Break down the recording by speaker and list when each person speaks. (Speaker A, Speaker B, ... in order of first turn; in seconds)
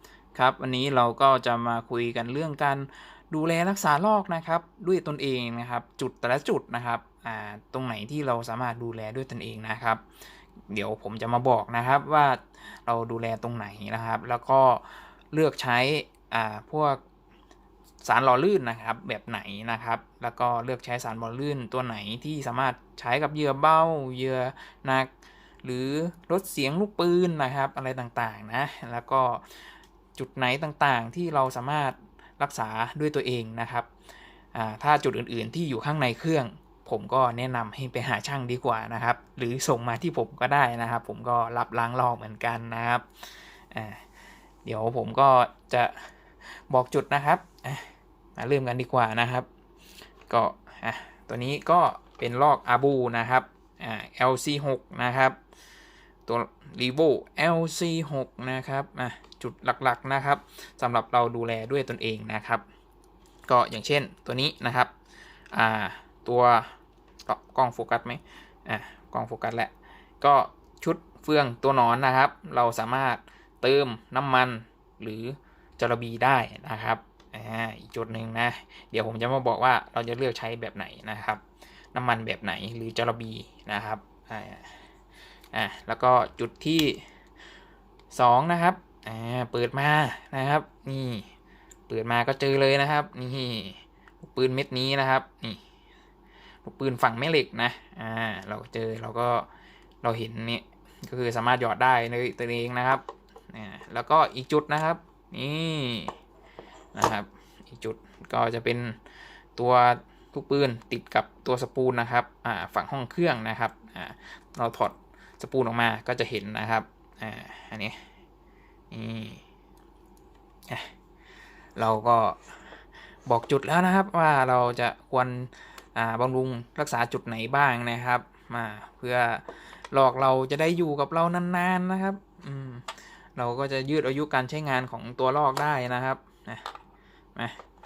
Speaker A: 0.3-10.0, 10.7-17.0, 18.0-25.1, 25.6-33.9, 34.5-44.0, 44.6-49.5, 50.3-55.4, 56.2-62.6, 63.5-64.9, 65.5-66.7, 67.2-81.4, 81.9-84.8, 85.5-87.0, 88.1-91.3, 91.9-95.6, 96.6-99.5, 100.0-106.2, 106.9-109.0, 109.5-118.0, 118.9-119.4, 121.8-122.5, 123.2-136.7